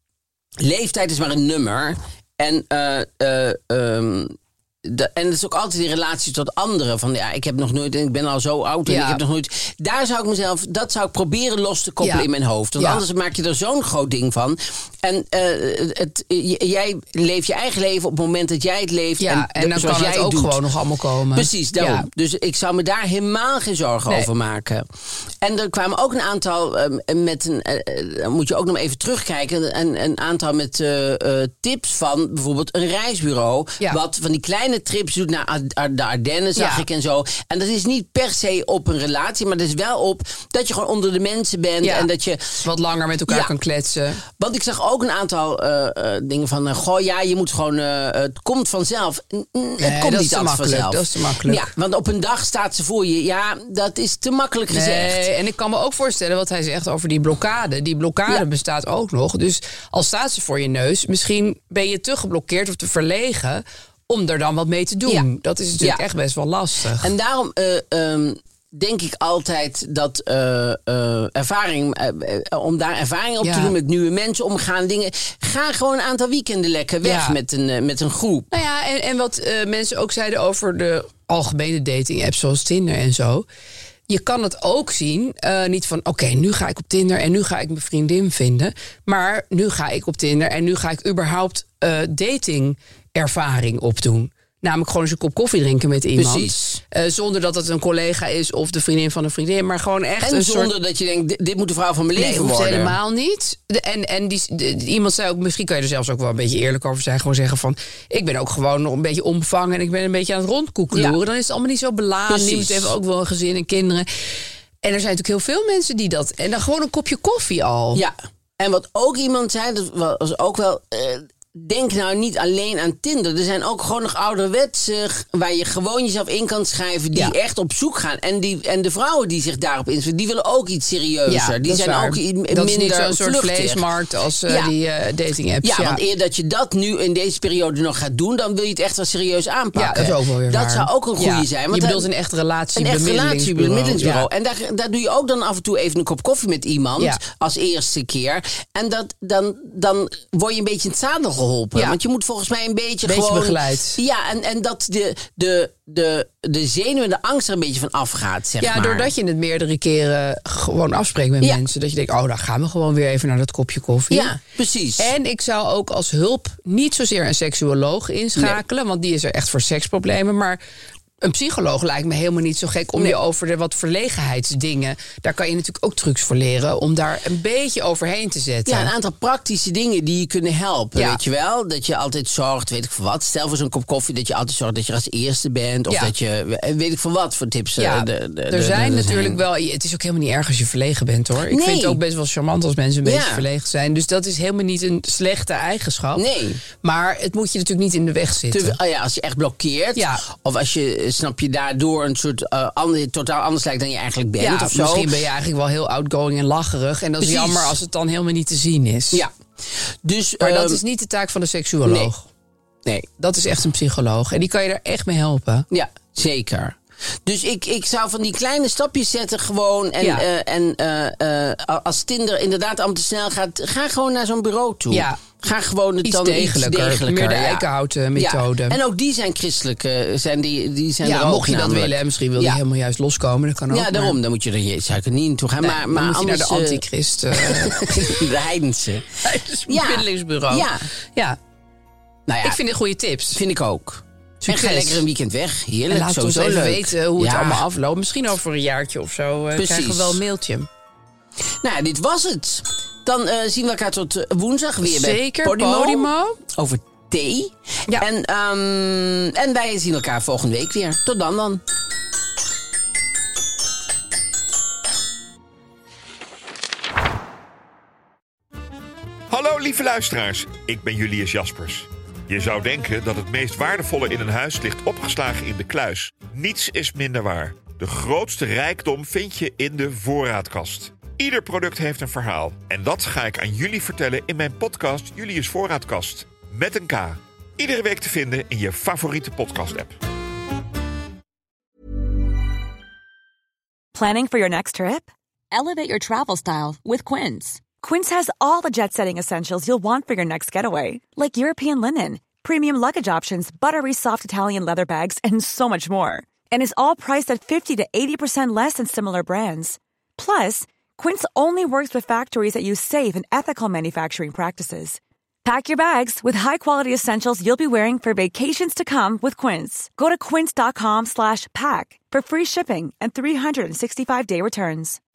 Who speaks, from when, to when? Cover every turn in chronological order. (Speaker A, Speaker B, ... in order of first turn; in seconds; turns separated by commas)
Speaker A: 0.6-20.6, Speaker B: 8.8-9.2, Speaker B: 12.0-13.0, Speaker B: 19.2-22.1, Speaker A: 21.3-24.8, Speaker A: 25.4-42.6, Speaker B: 36.5-36.8, Speaker B: 41.8-42.1, Speaker B: 42.6-44.2, Speaker A: 43.3-43.5, Speaker A: 44.3-55.2, Speaker B: 49.8-51.7, Speaker B: 54.7-67.1, Speaker A: 67.0-78.5, Speaker B: 73.4-73.7, Speaker B: 77.0-77.4, Speaker B: 78.5-83.5, Speaker B: 84.1-100.7, Speaker A: 96.2-96.8, Speaker A: 100.2-103.0, Speaker B: 102.1-114.1, Speaker A: 112.3-112.9, Speaker B: 114.8-118.0, Speaker A: 117.9-133.9, Speaker B: 131.3-136.0, Speaker A: 134.4-134.7, Speaker A: 135.6-142.1, Speaker B: 139.7-144.3, Speaker A: 142.8-159.1, Speaker B: 153.0-154.0, Speaker B: 158.6-164.4, Speaker A: 164.1-165.1, Speaker B: 165.0-170.6, Speaker B: 171.2-178.9, Speaker A: 178.7-189.4, Speaker B: 180.9-181.2, Speaker B: 185.9-186.1, Speaker B: 187.8-196.2, Speaker A: 191.5-192.0, Speaker A: 193.0-193.4, Speaker A: 196.2-196.6, Speaker B: 196.8-198.8, Speaker A: 198.5-205.1, Speaker B: 199.9-200.2, Speaker B: 204.4-209.2, Speaker A: 207.2-207.8, Speaker A: 209.1-210.8, Speaker B: 210.4-212.2, Speaker A: 211.8-212.1, Speaker B: 213.2-215.7, Speaker A: 215.7-232.6, Speaker B: 220.0-220.2, Speaker B: 224.9-225.2, Speaker B: 226.0-228.8, Speaker B: 231.0-234.2, Speaker A: 233.7-239.2, Speaker B: 235.6-238.2, Speaker B: 239.2-241.4, Speaker A: 239.7-240.9, Speaker A: 242.3-242.6, Speaker B: 242.4-243.4, Speaker A: 243.3-247.6, Speaker B: 244.4-245.0, Speaker B: 245.9-250.7, Speaker A: 249.5-250.2, Speaker A: 251.6-261.6, Speaker B: 254.8-256.4, Speaker C: 269.3-290.0, Speaker D: 293.9-325.0